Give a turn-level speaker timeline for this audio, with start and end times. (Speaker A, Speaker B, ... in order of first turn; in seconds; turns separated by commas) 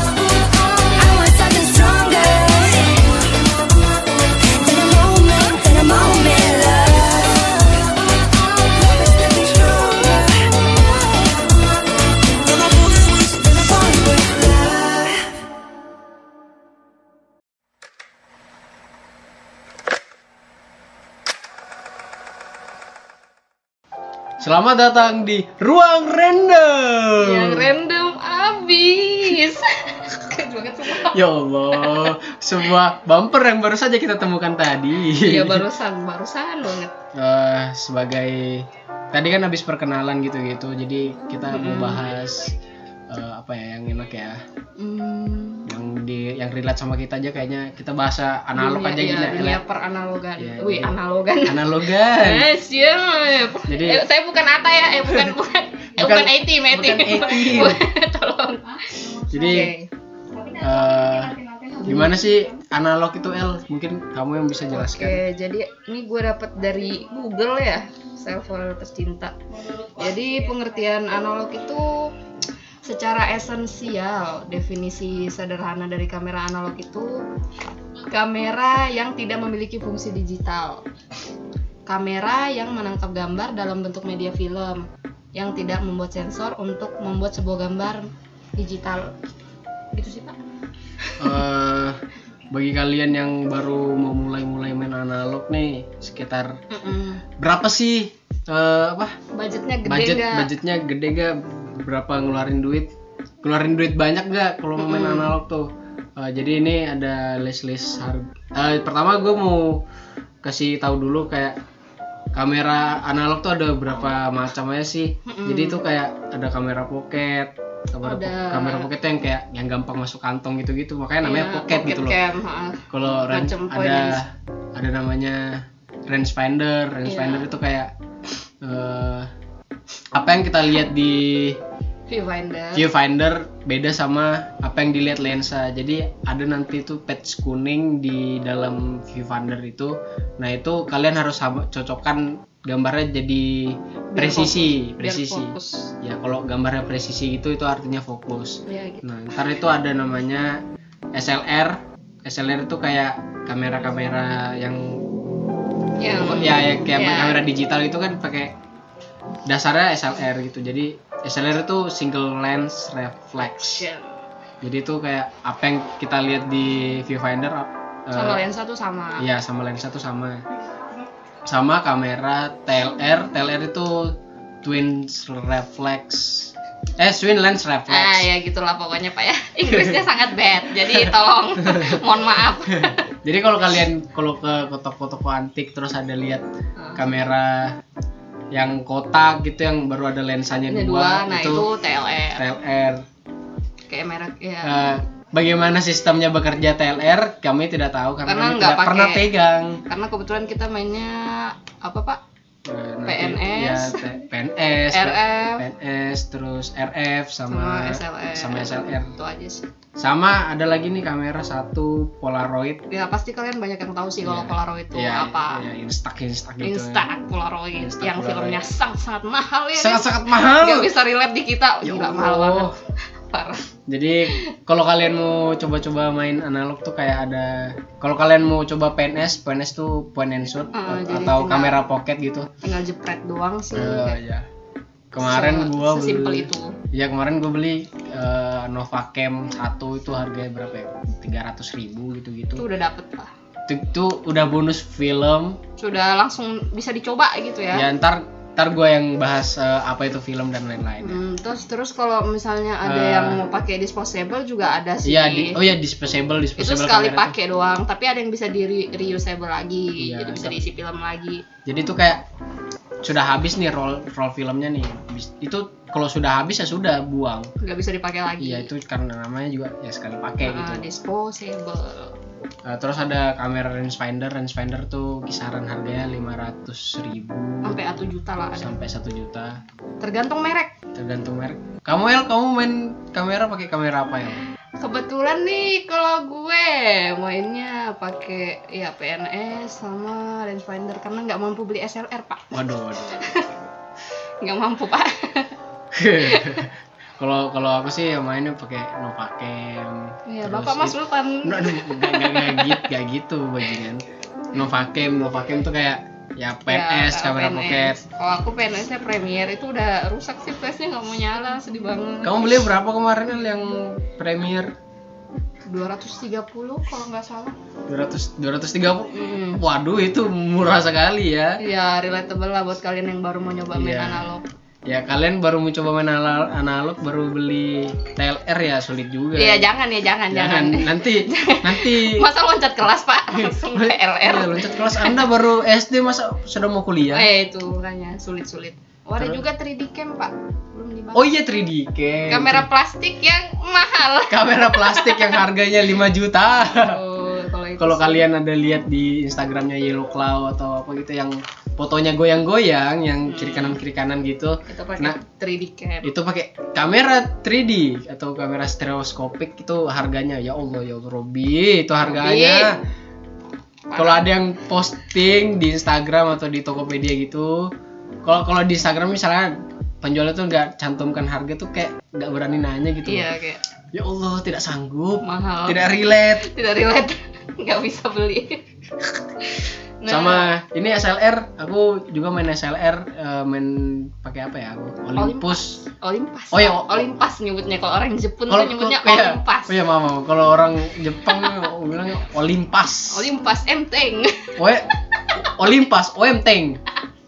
Speaker A: 0.9-3.1, Speaker A: 4.5-7.9, Speaker A: 8.7-10.6, Speaker A: 12.4-15.3, Speaker B: 24.4-27.7, Speaker C: 27.2-31.2, Speaker B: 31.0-35.6, Speaker C: 31.7-32.1, Speaker C: 35.2-36.9, Speaker B: 37.1-42.5, Speaker C: 41.5-42.0, Speaker B: 43.1-44.4, Speaker C: 44.8-45.7, Speaker B: 45.7-49.6, Speaker C: 48.6-59.9, Speaker B: 50.4-52.5, Speaker B: 53.7-54.0, Speaker B: 56.0-57.8, Speaker B: 59.3-59.7, Speaker B: 60.6-65.2, Speaker C: 61.6-62.2, Speaker C: 64.7-69.3, Speaker C: 69.9-72.1, Speaker C: 72.8-77.2, Speaker C: 78.1-80.8, Speaker C: 81.9-89.1, Speaker C: 89.9-90.4, Speaker C: 91.0-91.3, Speaker B: 91.2-92.0, Speaker B: 92.5-96.6, Speaker C: 96.7-97.2, Speaker B: 97.4-99.2, Speaker C: 99.3-100.5, Speaker B: 99.8-102.9, Speaker B: 103.4-109.8, Speaker C: 104.8-105.3, Speaker B: 110.4-111.6, Speaker B: 112.3-122.2, Speaker C: 115.2-115.8, Speaker C: 118.0-118.9, Speaker C: 121.2-124.2, Speaker B: 122.9-127.9, Speaker C: 127.0-127.5, Speaker B: 128.6-129.3, Speaker B: 130.1-131.6, Speaker C: 132.1-132.9, Speaker B: 132.7-150.6, Speaker C: 144.1-145.9, Speaker C: 148.7-149.1, Speaker B: 151.2-155.0, Speaker C: 156.0-157.4, Speaker B: 156.2-158.6, Speaker B: 159.5-163.9, Speaker C: 163.4-164.1, Speaker B: 164.6-168.4, Speaker C: 168.1-169.2, Speaker B: 169.2-170.4, Speaker B: 171.5-178.3, Speaker C: 177.9-183.0, Speaker B: 179.7-180.0, Speaker B: 181.6-182.0, Speaker B: 182.7-187.8, Speaker C: 186.8-187.1, Speaker B: 188.5-191.7, Speaker C: 190.7-192.4, Speaker B: 192.3-193.1, Speaker C: 193.9-195.0, Speaker B: 194.6-199.8, Speaker C: 198.3-199.3, Speaker C: 199.9-202.2, Speaker B: 202.7-209.1, Speaker C: 203.1-204.0, Speaker C: 204.9-205.7, Speaker C: 207.5-209.7, Speaker B: 210.0-212.8, Speaker C: 212.9-215.6, Speaker B: 214.2-217.0, Speaker C: 216.6-222.7, Speaker B: 217.8-218.7, Speaker B: 219.8-220.9, Speaker B: 221.8-222.8, Speaker C: 223.3-223.7, Speaker B: 223.9-232.5, Speaker C: 230.7-231.8, Speaker C: 232.6-234.2, Speaker B: 233.7-234.5, Speaker B: 235.1-242.7, Speaker C: 235.2-236.8, Speaker C: 242.6-243.3, Speaker B: 243.7-245.6, Speaker C: 245.8-247.9, Speaker B: 247.7-251.2, Speaker C: 251.0-255.6, Speaker B: 252.8-253.4, Speaker B: 255.0-257.3, Speaker C: 256.6-261.4, Speaker B: 260.0-260.6, Speaker B: 261.6-262.2, Speaker B: 263.0-267.5, Speaker C: 267.6-268.7, Speaker B: 268.4-270.9, Speaker C: 270.4-272.2, Speaker B: 272.6-277.8, Speaker C: 277.6-278.8, Speaker B: 278.6-279.6, Speaker C: 280.0-280.8, Speaker B: 280.9-284.4, Speaker C: 284.8-293.6, Speaker B: 292.5-293.7, Speaker C: 294.4-295.5, Speaker B: 295.9-308.0, Speaker C: 296.2-296.7, Speaker C: 300.3-302.9, Speaker C: 306.7-312.6, Speaker B: 312.2-314.7, Speaker C: 315.7-317.6, Speaker B: 317.9-321.6, Speaker C: 319.1-319.6, Speaker C: 321.6-324.4, Speaker B: 323.7-324.2, Speaker B: 324.9-329.7, Speaker C: 329.4-335.3, Speaker B: 330.3-332.2, Speaker B: 333.3-337.3, Speaker C: 337.1-341.4, Speaker B: 341.1-342.7, Speaker C: 342.3-345.4, Speaker B: 344.3-347.0, Speaker C: 346.8-348.3, Speaker B: 347.8-355.2, Speaker C: 353.3-353.8, Speaker C: 354.7-356.1, Speaker B: 356.0-362.8, Speaker C: 362.0-362.7, Speaker C: 363.9-364.3, Speaker B: 363.9-367.7, Speaker B: 368.2-373.3, Speaker C: 373.1-373.6, Speaker B: 373.9-376.5, Speaker C: 375.2-378.6, Speaker C: 379.4-380.5, Speaker B: 380.1-385.8, Speaker C: 385.2-389.8, Speaker B: 386.5-386.8, Speaker B: 388.5-393.2, Speaker C: 391.3-391.6, Speaker C: 393.1-394.6, Speaker B: 394.6-396.8